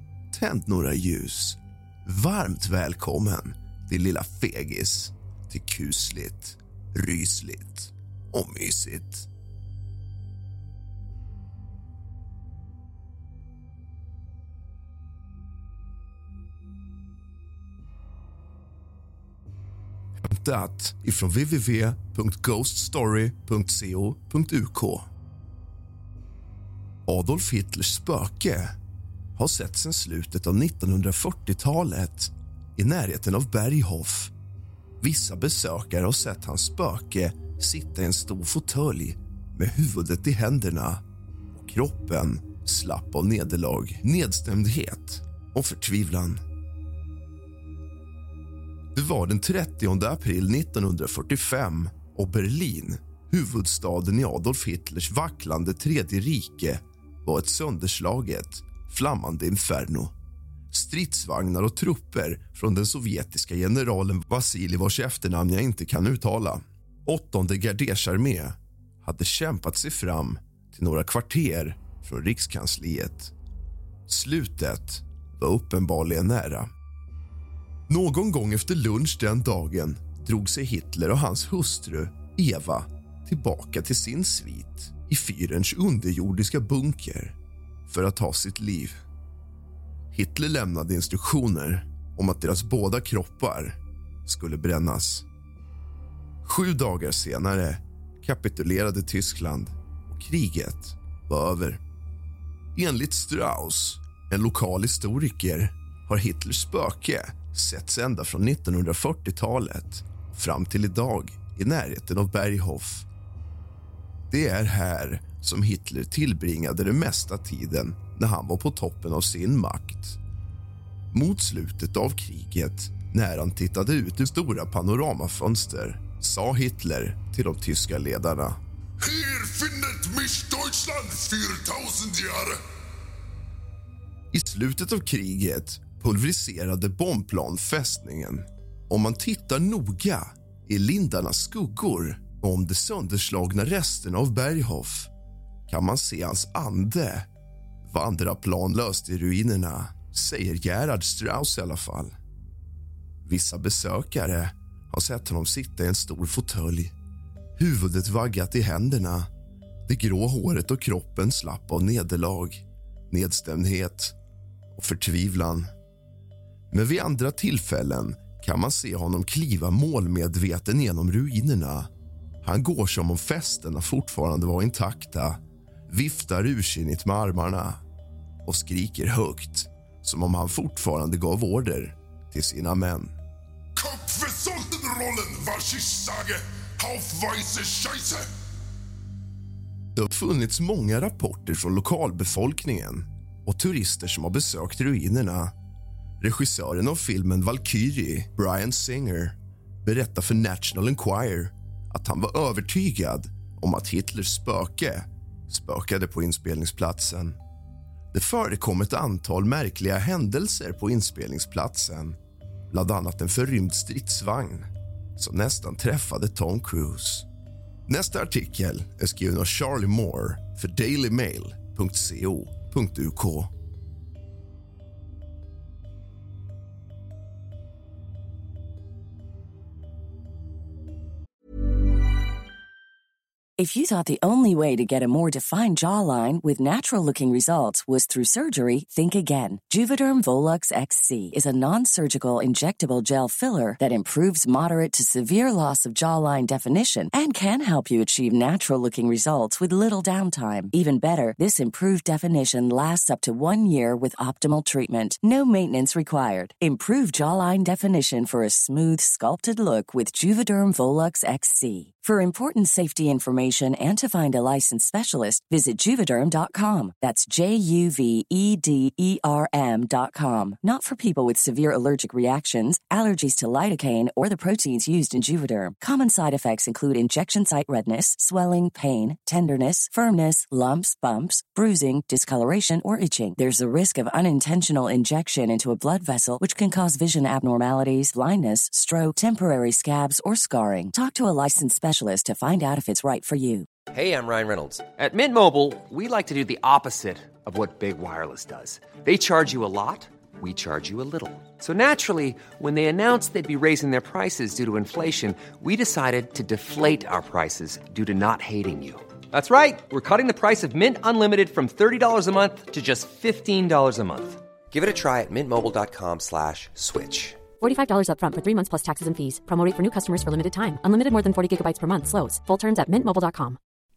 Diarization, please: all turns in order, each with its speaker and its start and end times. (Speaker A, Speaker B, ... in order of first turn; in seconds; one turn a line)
Speaker A: 0.3-9.3
Speaker A: 20.2-25.1
Speaker A: 27.1-28.7
Speaker A: 29.4-34.3
Speaker A: 35.0-41.0
Speaker A: 41.5-46.4
Speaker A: 49.0-60.1
Speaker A: 60.7-73.3
Speaker A: 74.1-76.7
Speaker A: 77.9-87.4
Speaker A: 87.9-89.0
Speaker A: 90.1-95.3
Speaker A: 96.4-101.8
Speaker A: 102.8-113.1
Speaker A: 114.3-120.2
Speaker A: 121.1-128.6
Speaker B: 129.0-132.5
Speaker A: 134.3-145.1
Speaker A: 145.7-147.3
Speaker A: 147.9-152.1
Speaker A: 153.3-156.9
Speaker A: 157.6-159.3
Speaker A: 159.9-164.2
Speaker A: 164.8-165.7
Speaker A: 166.7-171.9
Speaker A: 172.4-177.8
Speaker A: 178.4-183.1
Speaker B: 183.8-184.5
Speaker A: 183.9-185.2
Speaker B: 185.2-186.0
Speaker A: 185.9-186.2
Speaker B: 186.8-188.2
Speaker A: 189.9-195.5
Speaker A: 196.2-207.4
Speaker A: 208.1-212.2
Speaker A: 212.7-217.3
Speaker A: 217.9-223.5
Speaker C: 233.6-293.7
Speaker D: 293.9-317.5
Speaker E: 317.6-323.6